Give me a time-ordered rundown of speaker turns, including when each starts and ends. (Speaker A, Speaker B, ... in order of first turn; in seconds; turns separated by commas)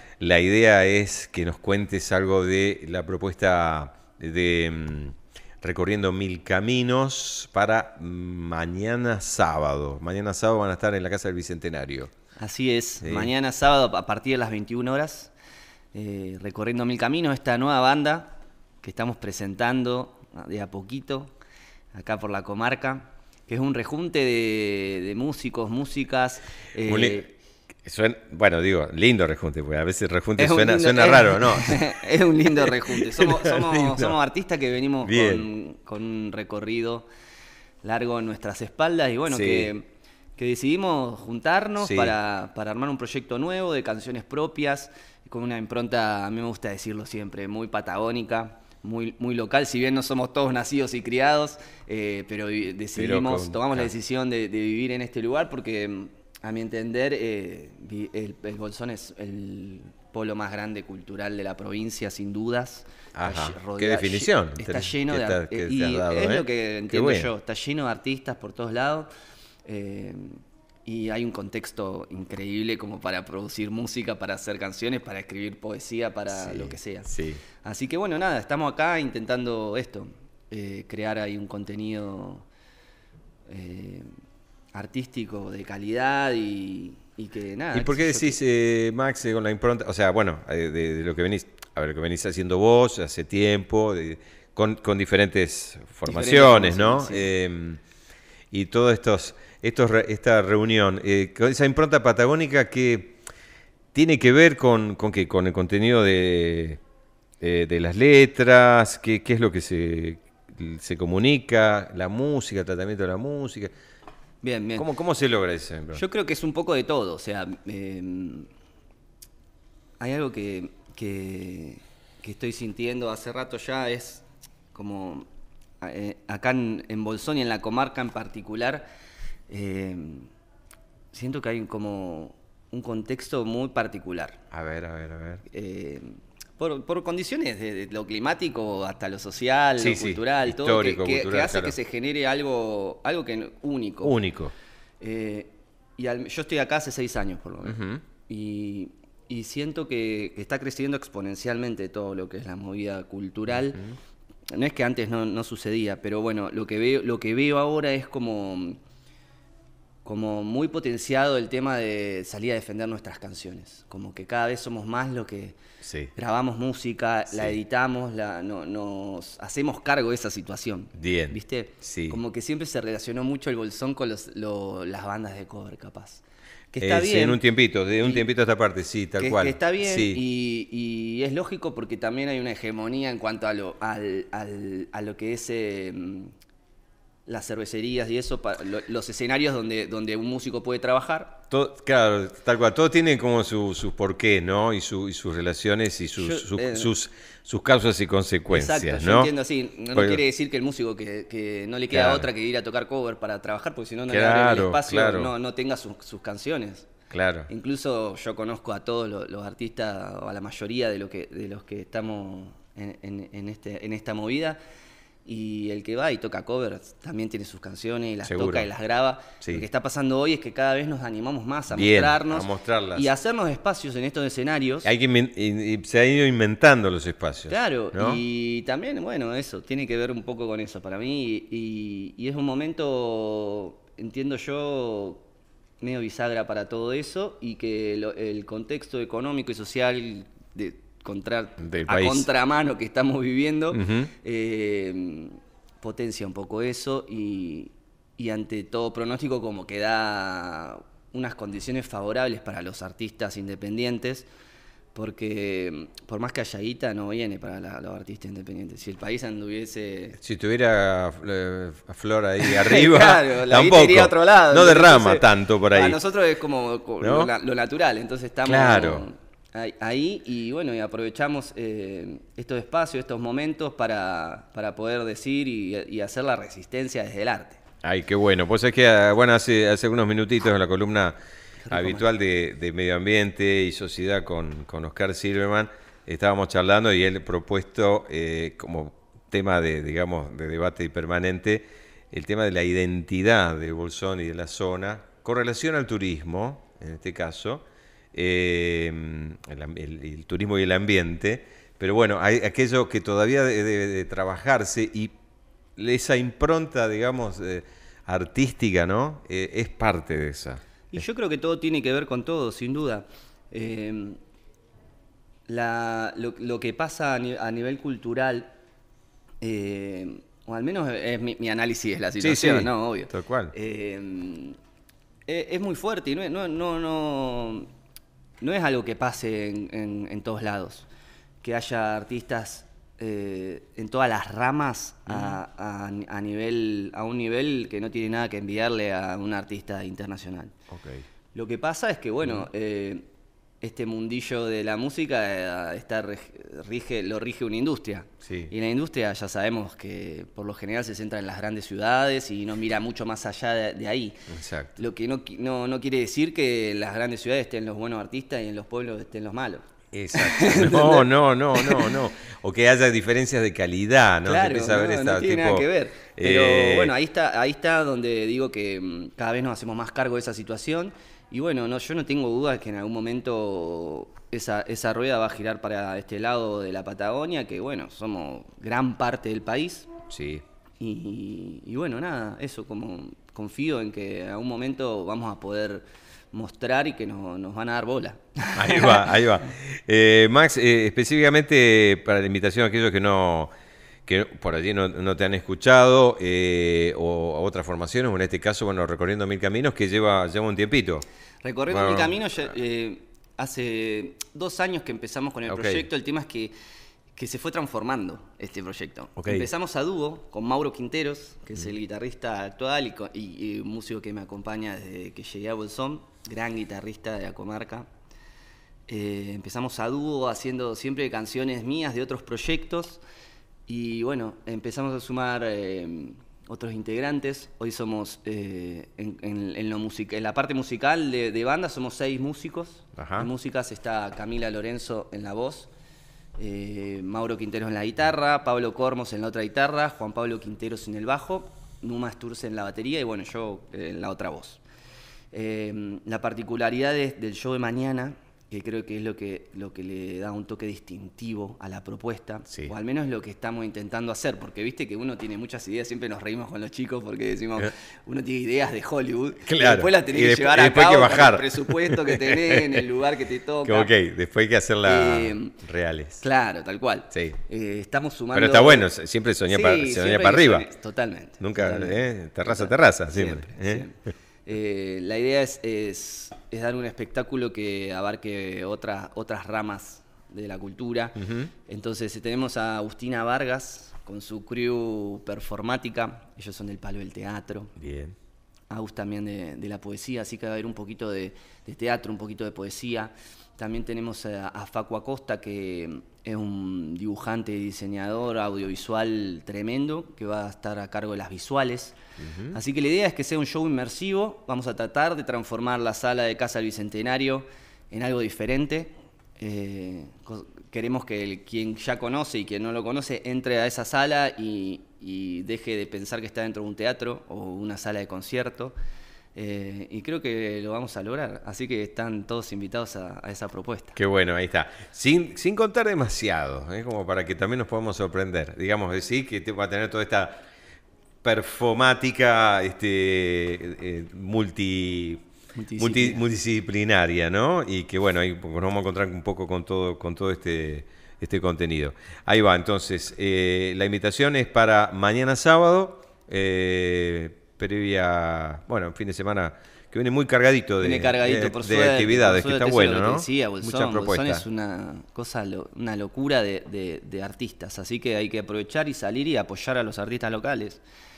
Speaker A: 0.2-12.1, Speaker B: 12.4-15.3, Speaker A: 13.0-13.3, Speaker B: 15.9-21.3, Speaker B: 21.9-27.3, Speaker A: 26.9-31.9, Speaker B: 30.4-37.0, Speaker A: 32.6-34.1, Speaker A: 35.0-35.5, Speaker B: 37.8-39.9, Speaker A: 39.3-39.7, Speaker B: 40.4-69.1, Speaker A: 41.8-42.1, Speaker A: 52.9-53.9, Speaker A: 63.1-67.3, Speaker B: 69.7-82.5, Speaker A: 76.3-77.4, Speaker B: 83.5-84.1, Speaker B: 84.7-88.4, Speaker A: 87.7-97.8, Speaker B: 96.0-97.3, Speaker A: 98.5-103.2, Speaker A: 103.9-106.8, Speaker A: 107.4-113.7, Speaker B: 114.4-114.9, Speaker A: 114.8-116.0, Speaker B: 115.9-118.5, Speaker B: 120.0-125.3, Speaker B: 125.8-128.8, Speaker B: 129.5-130.3, Speaker B: 131.1-134.4, Speaker A: 134.5-135.4, Speaker B: 135.5-144.1, Speaker A: 139.8-141.7, Speaker A: 144.0-144.5, Speaker B: 145.0-153.8, Speaker A: 147.6-148.0, Speaker B: 154.5-158.8, Speaker B: 160.0-165.6, Speaker A: 165.8-166.1, Speaker B: 166.2-177.4, Speaker A: 167.3-167.6, Speaker A: 171.0-172.2, Speaker A: 176.8-180.2, Speaker B: 179.2-186.3, Speaker B: 187.3-191.4, Speaker A: 191.5-199.3, Speaker B: 196.2-196.9, Speaker B: 198.5-206.9, Speaker A: 199.9-200.2, Speaker A: 201.9-202.3, Speaker A: 204.1-205.3, Speaker A: 207.1-207.5, Speaker B: 207.5-214.6, Speaker B: 215.2-224.9, Speaker A: 218.2-218.7, Speaker A: 221.7-223.1, Speaker A: 224.8-228.2, Speaker B: 227.5-235.2, Speaker B: 235.8-254.3, Speaker A: 241.6-242.3, Speaker A: 243.7-244.1, Speaker B: 254.9-260.2, Speaker A: 260.2-266.0, Speaker B: 262.4-277.6, Speaker A: 267.0-267.3, Speaker A: 268.4-269.1, Speaker A: 277.8-281.1, Speaker B: 281.6-282.1, Speaker A: 281.7-305.1, Speaker A: 305.8-311.0, Speaker B: 310.9-314.2, Speaker B: 315.5-318.5, Speaker B: 319.4-324.6, Speaker A: 322.2-323.5, Speaker B: 325.3-327.7, Speaker B: 328.4-330.9, Speaker B: 331.4-340.6, Speaker A: 335.1-335.4, Speaker A: 340.7-341.0, Speaker B: 341.3-343.0, Speaker B: 343.6-354.2, Speaker A: 348.2-348.5, Speaker A: 354.3-354.8, Speaker B: 354.8-362.0, Speaker A: 359.9-366.9, Speaker B: 364.2-379.9, Speaker A: 380.1-380.4, Speaker B: 380.8-389.0, Speaker A: 388.5-393.5, Speaker A: 394.1-401.0, Speaker B: 401.4-406.5, Speaker A: 401.7-402.2, Speaker A: 405.4-405.9, Speaker B: 407.1-417.9, Speaker A: 409.2-409.5, Speaker B: 418.9-423.0, Speaker B: 423.7-435.7, Speaker A: 432.9-433.3, Speaker B: 436.4-444.6, Speaker B: 445.3-463.9, Speaker A: 459.4-462.8, Speaker A: 463.6-466.2, Speaker B: 464.8-465.6, Speaker B: 466.2-468.9, Speaker A: 467.1-467.4, Speaker A: 468.3-470.7, Speaker B: 469.5-487.7, Speaker A: 471.4-473.9, Speaker A: 481.2-481.5, Speaker A: 487.8-488.1, Speaker B: 488.7-502.0, Speaker A: 502.2-502.6, Speaker B: 502.5-518.7, Speaker B: 519.3-524.0, Speaker A: 524.0-530.3, Speaker A: 531.2-535.2, Speaker B: 535.5-536.2, Speaker A: 535.8-554.4, Speaker B: 550.8-560.8